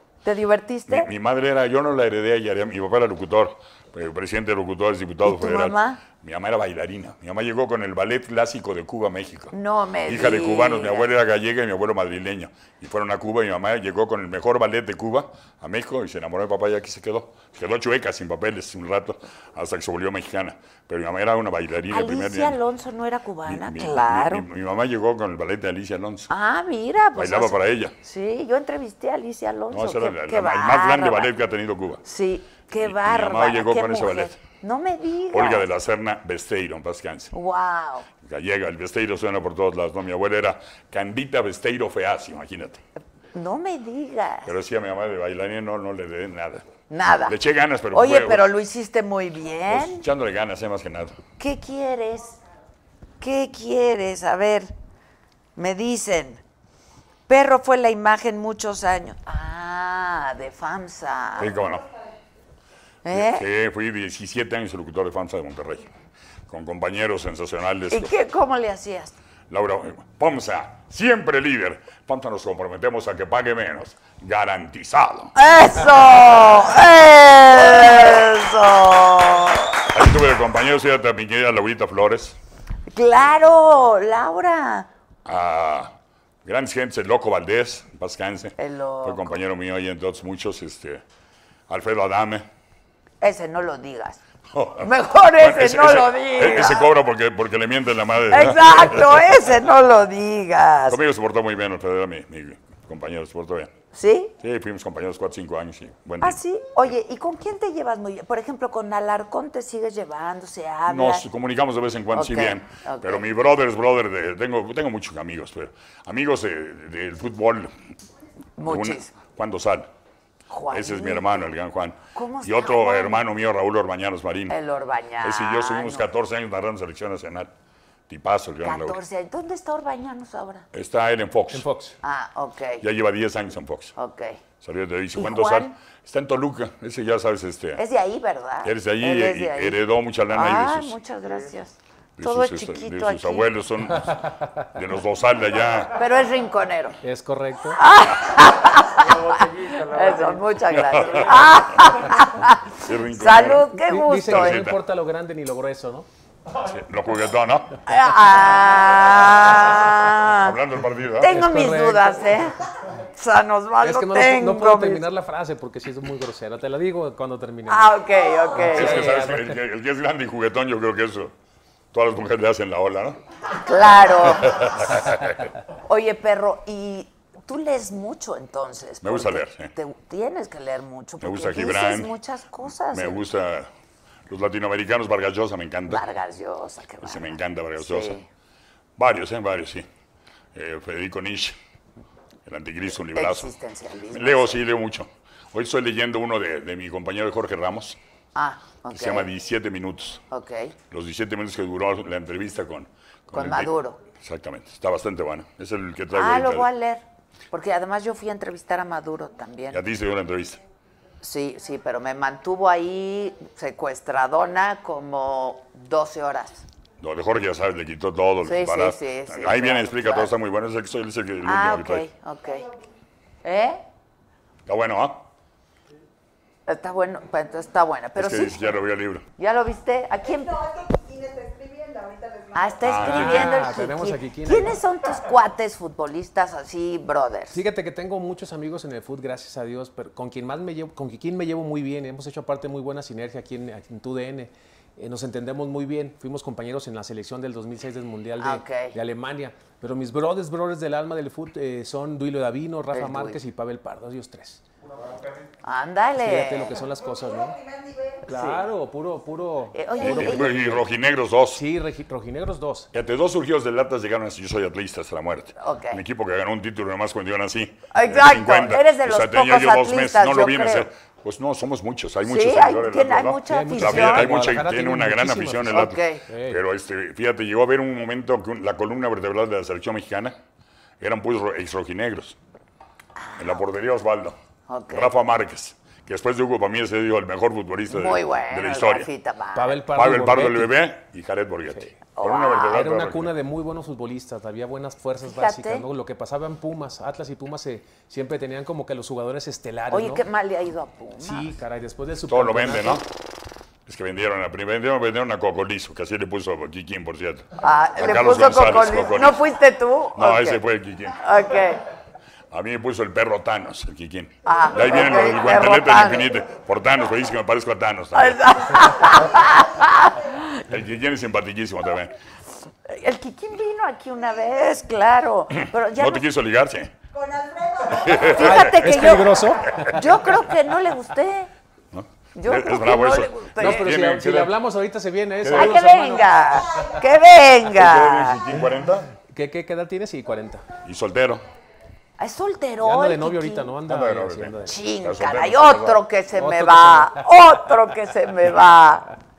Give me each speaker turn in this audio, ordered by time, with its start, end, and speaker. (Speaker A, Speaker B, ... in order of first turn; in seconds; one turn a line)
Speaker A: 0.2-1.1
Speaker B: 0.9-9.5
Speaker A: 5.2-6.0
Speaker A: 9.5-11.1
Speaker B: 10.1-22.6
Speaker A: 21.9-24.5
Speaker B: 23.4-26.3
Speaker A: 26.3-31.3
Speaker B: 27.1-27.9
Speaker B: 29.7-32.0
Speaker A: 32.0-35.7
Speaker B: 32.7-34.4
Speaker B: 35.3-37.3
Speaker A: 37.3-38.1
Speaker B: 38.2-42.8
Speaker A: 43.3-44.5
Speaker B: 44.4-46.7
Speaker A: 46.9-47.4
Speaker B: 47.2-48.5
Speaker A: 47.9-50.1
Speaker B: 49.7-51.1
Speaker A: 51.4-52.4
Speaker A: 53.2-54.7
Speaker A: 55.5-56.4
Speaker A: 57.3-61.6
Speaker B: 61.4-61.9
Speaker A: 63.0-63.5
Speaker B: 63.1-65.9
Speaker B: 66.5-68.1
Speaker A: 67.9-69.1
Speaker B: 69.5-75.3
Speaker A: 75.3-80.0
Speaker B: 79.9-82.4
Speaker A: 82.9-84.9
Speaker B: 85.2-85.9
Speaker B: 86.4-91.0
Speaker A: 88.6-89.4
Speaker B: 91.7-92.5
Speaker A: 93.2-94.2
Speaker B: 94.5-99.2
Speaker A: 94.8-96.9
Speaker A: 98.3-101.0
Speaker B: 100.9-103.7
Speaker A: 103.9-104.3
Speaker B: 104.4-106.4
Speaker A: 106.2-111.2
Speaker B: 110.9-117.7
Speaker A: 112.1-113.2
Speaker A: 118.6-119.1
Speaker B: 118.6-119.9
Speaker A: 120.5-121.5
Speaker B: 120.7-124.5
Speaker A: 122.1-123.2
Speaker A: 124.5-126.1
Speaker B: 125.2-127.5
Speaker B: 128.1-129.0
Speaker A: 128.6-130.7
Speaker B: 130.7-131.7
Speaker C: 131.5-132.0
Speaker A: 132.0-132.8
Speaker B: 132.8-133.9
Speaker A: 133.9-134.4
Speaker B: 134.6-137.8
Speaker A: 135.1-135.7
Speaker A: 137.8-143.5
Speaker B: 138.6-140.9
Speaker B: 142.2-145.9
Speaker C: 144.0-144.7
Speaker A: 145.9-147.0
Speaker C: 147.0-147.8
Speaker A: 147.7-154.7
Speaker B: 150.7-151.4
Speaker B: 152.8-153.7
Speaker C: 153.7-156.1
Speaker B: 154.2-154.8
Speaker B: 156.6-157.8
Speaker A: 157.8-160.6
Speaker B: 160.4-161.3
Speaker A: 161.2-165.1
Speaker C: 161.2-162.2
Speaker C: 163.8-167.9
Speaker A: 167.7-169.1
Speaker C: 168.5-169.6
Speaker B: 168.7-171.3
Speaker B: 171.9-173.2
Speaker A: 173.5-174.7
Speaker B: 174.4-175.5
Speaker A: 175.8-183.2
Speaker B: 179.0-179.7
Speaker B: 181.2-182.1
Speaker B: 182.9-183.7
Speaker B: 184.3-186.0
Speaker A: 185.9-188.2
Speaker B: 187.0-188.2
Speaker B: 189.0-189.8
Speaker B: 190.5-191.6
Speaker B: 192.4-193.5
Speaker A: 193.1-194.6
Speaker B: 194.1-198.0
Speaker A: 198.3-199.3
Speaker B: 198.9-200.2
Speaker A: 200.3-200.7
Speaker B: 200.9-206.7
Speaker A: 203.3-204.0
Speaker A: 206.1-209.8
Speaker B: 209.7-210.6
Speaker A: 211.2-216.7
Speaker B: 217.0-222.0
Speaker A: 218.4-220.3
Speaker A: 221.4-222.7
Speaker A: 223.4-223.8
Speaker B: 224.7-225.2
Speaker A: 226.7-228.8
Speaker B: 228.2-229.2
Speaker A: 229.4-237.6
Speaker B: 232.8-233.6
Speaker C: 233.0-234.8
Speaker C: 237.5-254.6
Speaker A: 248.4-248.9
Speaker A: 252.9-253.4
Speaker A: 255.6-256.8
Speaker C: 256.2-257.6
Speaker A: 258.2-258.7
Speaker C: 258.2-260.9
Speaker A: 259.7-260.6
Speaker B: 260.0-261.6
Speaker C: 261.5-262.9
Speaker B: 262.9-280.3
Speaker A: 265.6-266.0
Speaker A: 267.9-270.9
Speaker A: 272.2-274.3
Speaker C: 273.4-276.6
Speaker A: 275.7-276.2
Speaker B: 281.0-282.4
Speaker A: 283.2-283.6
Speaker B: 283.4-284.4
Speaker A: 284.7-285.1
Speaker B: 284.9-289.1
Speaker A: 287.9-289.8
Speaker C: 289.5-290.9
Speaker B: 289.9-293.3
Speaker C: 291.7-291.9
Speaker A: 292.1-292.8
Speaker C: 292.7-300.2
Speaker A: 295.2-295.9
Speaker A: 299.9-301.6
Speaker C: 301.2-303.0
Speaker B: 302.3-303.1
Speaker B: 303.9-309.4
Speaker A: 307.6-310.6
Speaker B: 310.1-311.2
Speaker A: 311.2-311.8
Speaker B: 312.5-318.5
Speaker A: 314.4-316.4
Speaker A: 318.1-320.4
Speaker B: 320.6-322.1
Speaker A: 322.8-326.2
Speaker B: 325.9-326.9
Speaker A: 327.8-331.5
Speaker B: 327.9-328.8
Speaker C: 328.4-329.8
Speaker B: 331.9-334.5
Speaker A: 332.3-333.8
Speaker C: 333.5-336.4
Speaker B: 335.4-335.8
Speaker A: 335.5-338.4
Speaker B: 337.7-339.1
Speaker C: 339.1-340.7
Speaker B: 340.8-341.4
Speaker A: 342.2-343.8
Speaker C: 342.8-344.7
Speaker B: 343.8-346.0
Speaker A: 344.6-349.1
Speaker C: 346.3-347.3